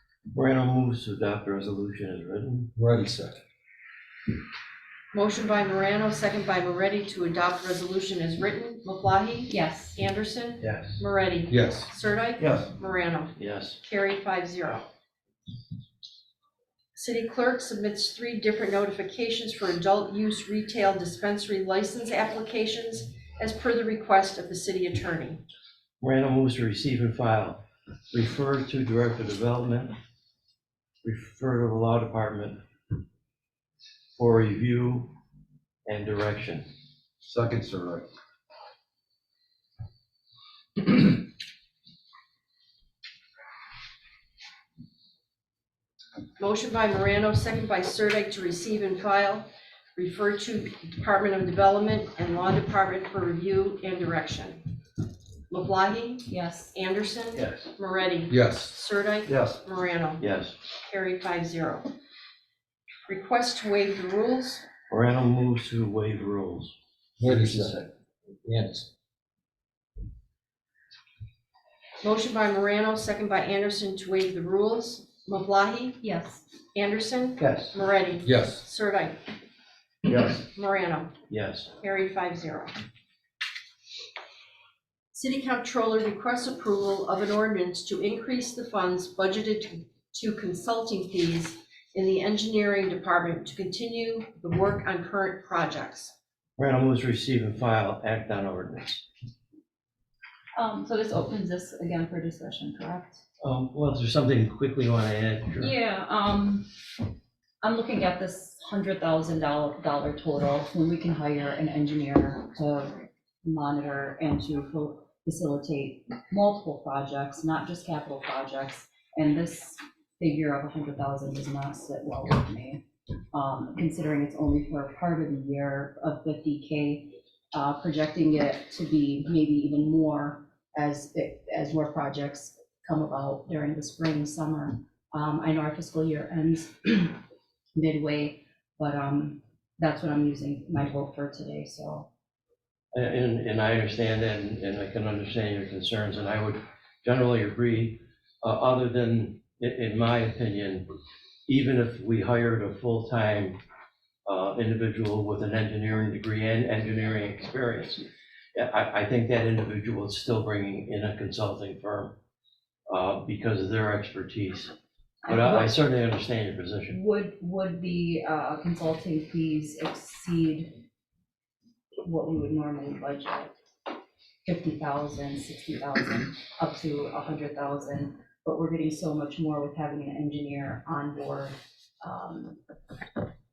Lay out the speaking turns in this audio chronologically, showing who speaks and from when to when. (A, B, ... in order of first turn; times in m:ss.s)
0:00.3-0:02.7 A
0:02.8-0:03.4 B
0:05.1-0:14.9 C
0:09.5-0:10.0 D
0:10.6-0:11.0 A
0:11.5-0:12.7 B
0:13.4-0:13.8 A
0:17.0-0:25.4 C
0:26.0-0:30.0 A
0:31.0-0:32.6 A
0:34.2-0:35.1 A
0:35.9-0:36.7 A
0:37.2-0:38.1 B
0:46.4-0:54.7 C
0:55.5-1:01.9 C
0:56.3-0:56.8 D
0:58.3-0:58.8 B
0:59.3-0:59.6 B
1:00.2-1:00.6 A
1:03.1-1:04.7 C
1:04.9-1:06.7 A
1:07.2-1:07.9 B
1:07.2-1:07.9 A
1:08.4-1:08.9 B
1:12.0-1:16.0 C
1:16.0-1:16.5 D
1:16.7-1:19.2 C
1:18.2-1:18.6 B
1:20.1-1:20.4 B
1:20.4-1:21.1 C
1:21.3-1:21.7 A
1:21.8-1:22.7 C
1:25.1-1:36.1 C
1:36.6-1:39.0 A
1:40.6-1:43.2 D
1:43.4-1:45.7 A
1:45.6-1:46.7 D
1:47.6-2:02.8 D
2:03.3-2:17.2 D
2:17.8-2:22.1 D
2:22.9-2:30.9 A
2:31.5-2:33.6 A
2:34.3-2:38.0 A
2:38.6-2:42.2 A
2:42.9-2:44.7 A
2:45.2-2:45.7 D
2:45.3-2:47.0 A
2:46.9-2:50.8 D
2:52.0-2:53.5 D
2:54.4-3:02.6 D